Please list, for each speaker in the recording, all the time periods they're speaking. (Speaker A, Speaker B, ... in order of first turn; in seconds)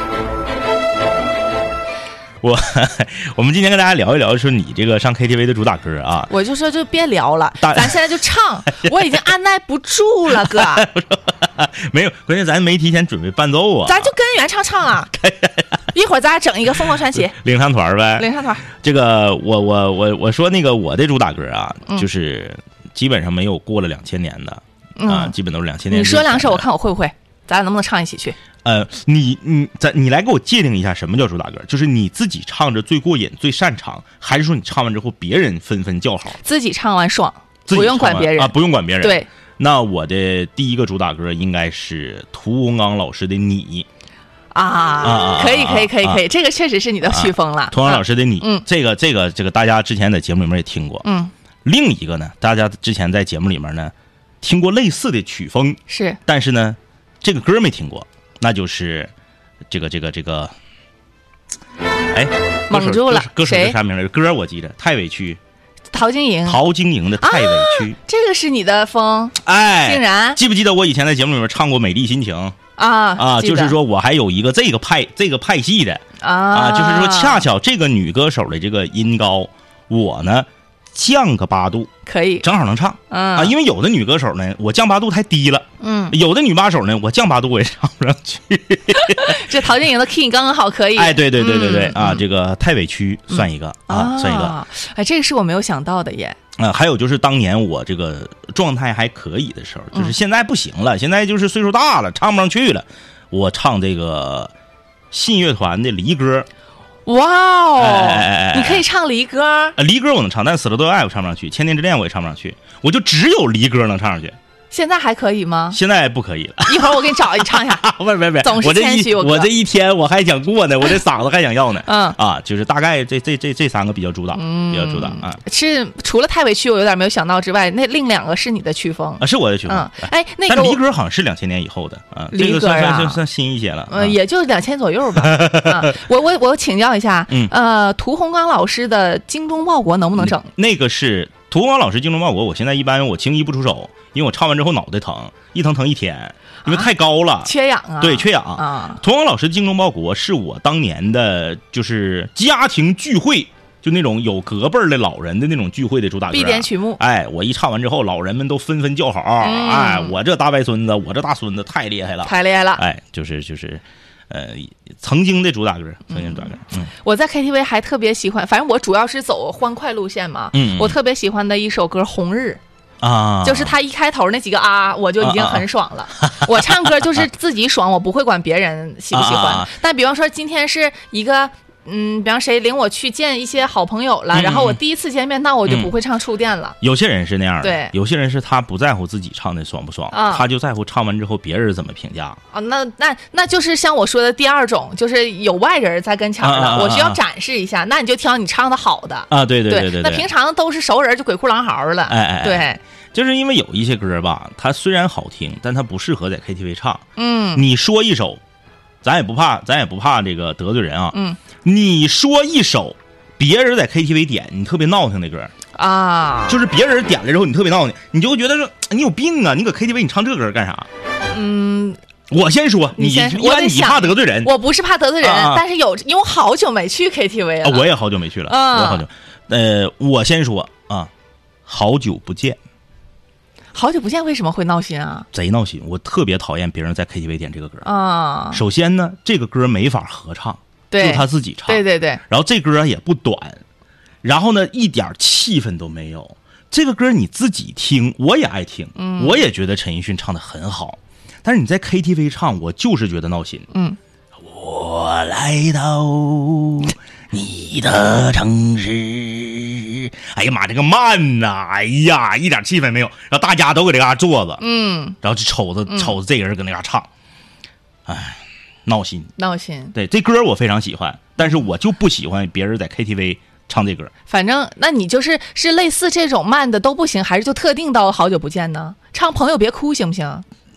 Speaker A: 2.4-6.3, 7.6-8.0, 10.3-14.1, 15.1-15.8, 17.1-26.6, 28.6-36.4, 37.7-43.9, 45.0-46.2, 47.0-51.0, 51.6-59.1, 59.7-60.5, 62.1-65.4, 66.5-68.0, 69.4-72.5, 73.2-81.9, 82.4-89.4, 91.0-94.5, 96.5-104.5, 105.1-106.5, 107.8-108.8, 109.8-114.3, 115.7-125.4, 129.2-134.2, 135.2-135.9, 140.2-166.9, 170.5-170.9, 173.0-173.7, 175.2-175.6, 176.2-177.2, 179.1-179.7, 184.3-184.8, 186.8-192.4, 196.4-197.2, 199.3-200.3, 202.1-208.4, 209.0-215.5, 216.5-220.9, 222.3-224.5, 225.2-225.6, 227.6-231.1, 231.7-232.6, 235.3-237.9, 238.5-243.6, 244.2-253.7, 254.4-264.6, 265.2-267.1, 268.1-269.3, 269.9-274.1
Speaker B: 6.3-10.9, 13.8-15.1, 15.9-17.3, 18.1-18.6, 25.0-25.3, 25.9-28.4, 36.4-39.3, 44.5-48.6, 51.0-51.3, 55.9-56.2, 62.7-63.8, 65.9-66.6, 67.2-70.4, 72.8-73.8, 76.2-77.4, 82.0-82.5, 83.1-83.5, 85.8-86.2, 89.0-92.2, 93.3-96.4, 107.0-109.8, 114.7-115.8, 116.7-117.9, 118.4-119.5, 121.8-122.2, 124.3-130.8, 132.3-133.2, 133.9-140.5, 146.6-146.9, 147.4-149.0, 156.3-157.0, 159.4-160.2, 162.2-162.8, 166.1-172.6, 173.4-186.8, 187.6-187.9, 190.1-190.4, 192.5-202.8, 207.2-207.6, 211.1-211.4, 215.8-216.6, 221.3-222.0, 222.9-227.9, 228.5-229.0, 233.7-235.3, 237.8-238.6, 240.9-242.2, 249.0-249.4, 253.7-254.0, 264.6-265.1, 265.9-266.1, 269.4-269.9, 274.3-280.4